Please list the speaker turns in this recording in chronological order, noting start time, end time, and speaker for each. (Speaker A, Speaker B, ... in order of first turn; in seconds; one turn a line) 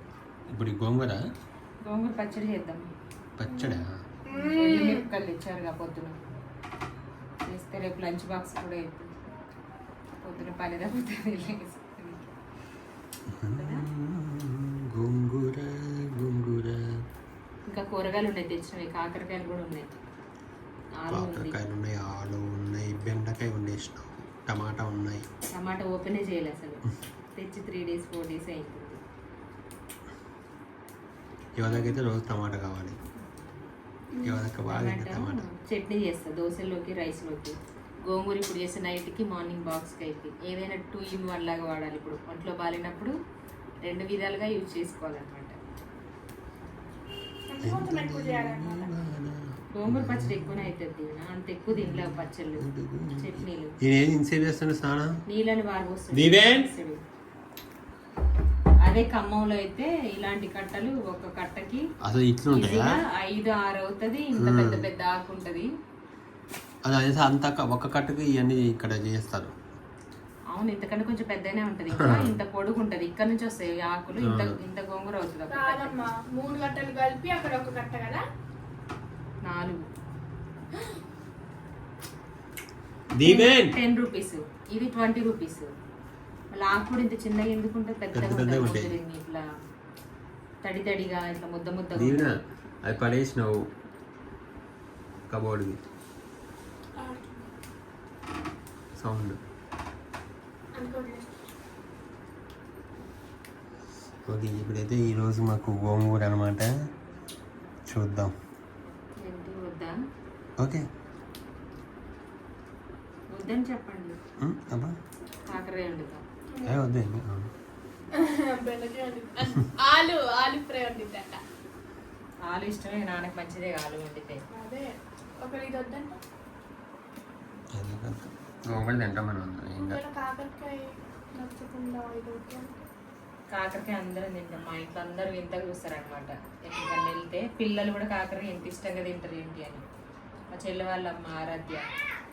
Speaker A: 0.5-1.2
Speaker B: 1.8-2.8
Speaker A: 3.4-3.9
Speaker C: 3.6-5.0
Speaker B: 4.3-6.2
Speaker B: 7.5-9.1
Speaker B: 10.2-12.3
Speaker A: 13.3-16.9
Speaker B: 13.5-13.9
Speaker B: 17.7-20.0
Speaker B: 21.0-21.6
Speaker A: 21.1-25.2
Speaker B: 25.5-26.8
Speaker B: 27.4-29.0
Speaker A: 31.6-33.0
Speaker C: 34.1-34.4
Speaker A: 34.2-35.5
Speaker B: 34.7-43.1
Speaker B: 43.8-45.5
Speaker C: 47.5-48.9
Speaker A: 47.6-50.7
Speaker B: 49.7-52.6
Speaker A: 51.7-55.1
Speaker B: 53.2-53.7
Speaker B: 55.3-57.0
Speaker A: 56.1-56.7
Speaker B: 58.9-61.8
Speaker A: 62.0-63.0
Speaker B: 62.5-65.7
Speaker A: 64.4-64.9
Speaker A: 66.8-69.5
Speaker B: 70.5-76.0
Speaker A: 72.0-72.3
Speaker A: 74.2-74.5
Speaker C: 75.5-78.2
Speaker B: 79.5-79.8
Speaker A: 83.2-83.7
Speaker B: 83.2-85.7
Speaker B: 86.5-89.4
Speaker A: 88.1-89.0
Speaker B: 90.6-92.3
Speaker A: 92.0-92.3
Speaker A: 92.8-93.6
Speaker A: 95.3-95.8
Speaker C: 97.0-97.5
Speaker A: 99.0-99.4
Speaker C: 100.7-101.2
Speaker A: 104.2-106.7
Speaker A: 107.9-108.3
Speaker B: 109.2-109.9
Speaker A: 110.6-110.8
Speaker B: 113.3-114.2
Speaker A: 114.4-115.0
Speaker B: 115.5-116.2
Speaker A: 116.6-117.5
Speaker C: 118.1-121.4
Speaker B: 122.5-124.4
Speaker C: 124.5-126.2
Speaker A: 127.8-130.0
Speaker C: 129.8-132.8
Speaker B: 133.5-139.8
Speaker B: 140.5-141.9